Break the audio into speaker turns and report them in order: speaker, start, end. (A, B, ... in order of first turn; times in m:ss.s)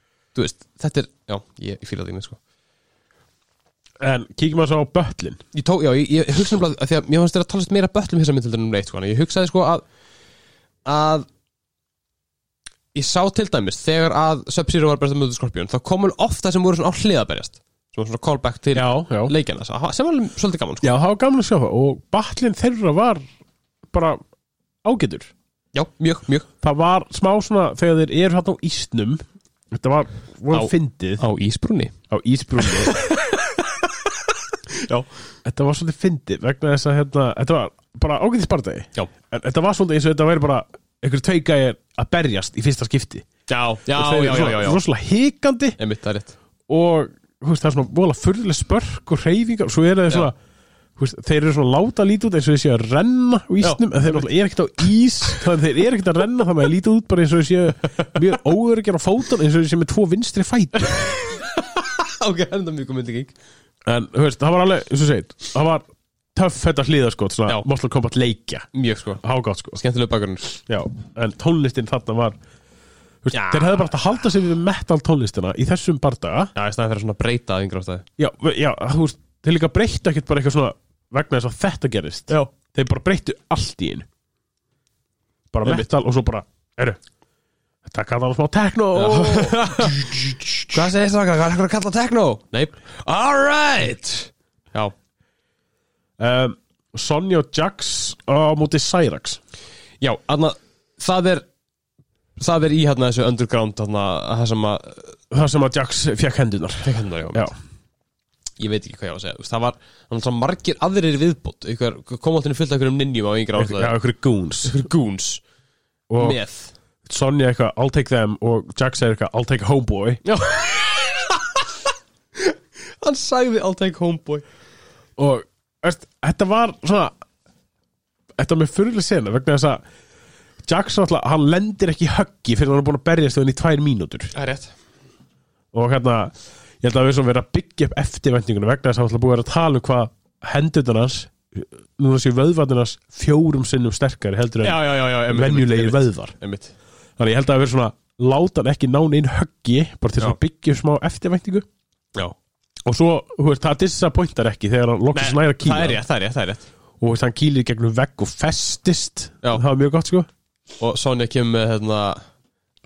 0:00.3-0:02.4 A
0:04.0-0:05.4 B
0:05.5-0:09.8 A
0:10.8-0:11.2 A
0:12.9-0:20.9 A
0:18.7-0:19.3 B
0:20.8-0:23.2 B
0:23.9-0:24.2 B
0:24.8-0:25.3 B
0:25.7-0:26.5 A
0:26.6-0:31.2 B
0:30.5-0:31.9 A
0:32.1-0:33.1 B
0:32.6-0:33.6 A
0:34.7-0:35.1 A
0:35.4-0:43.2 B
0:43.5-0:44.8 A
0:43.9-0:45.8 B
0:45.8-0:46.4 A
0:46.7-0:50.3 B
0:51.0-1:01.2 B
0:53.6-0:54.2 A
1:00.8-1:03.3 A
1:03.8-1:08.7 B
1:08.7-1:09.2 A
1:09.2-1:09.8 B
1:09.8-1:10.6 A
1:10.6-1:12.4 B
1:13.2-1:16.5 B
1:13.3-1:13.8 A
1:16.5-1:18.0 A
1:18.2-1:24.0 B
1:25.5-1:27.0 B
1:27.8-1:30.8 B
1:28.9-1:30.2 A
1:30.7-1:34.9 A
1:36.2-1:39.4 B
1:40.0-1:41.4 A
1:42.4-1:45.2 A
1:45.3-1:47.5 B
1:46.8-1:47.5 A
1:48.6-1:54.0 A
1:53.6-1:54.8 B
1:54.6-1:55.4 A
1:56.1-1:56.4 B
1:56.2-1:56.7 A
1:57.0-2:00.2 B
2:00.2-2:01.7 A
2:02.4-2:04.4 A
2:05.2-2:07.1 B
2:08.4-2:09.8 B
2:10.6-2:14.3 B
2:14.3-2:14.7 A
2:15.7-2:26.3 B
2:24.6-2:26.7 A
2:27.2-2:31.6 B
2:32.8-2:36.0 B
2:35.1-2:36.6 A
2:37.0-2:40.3 B
2:40.8-2:42.2 A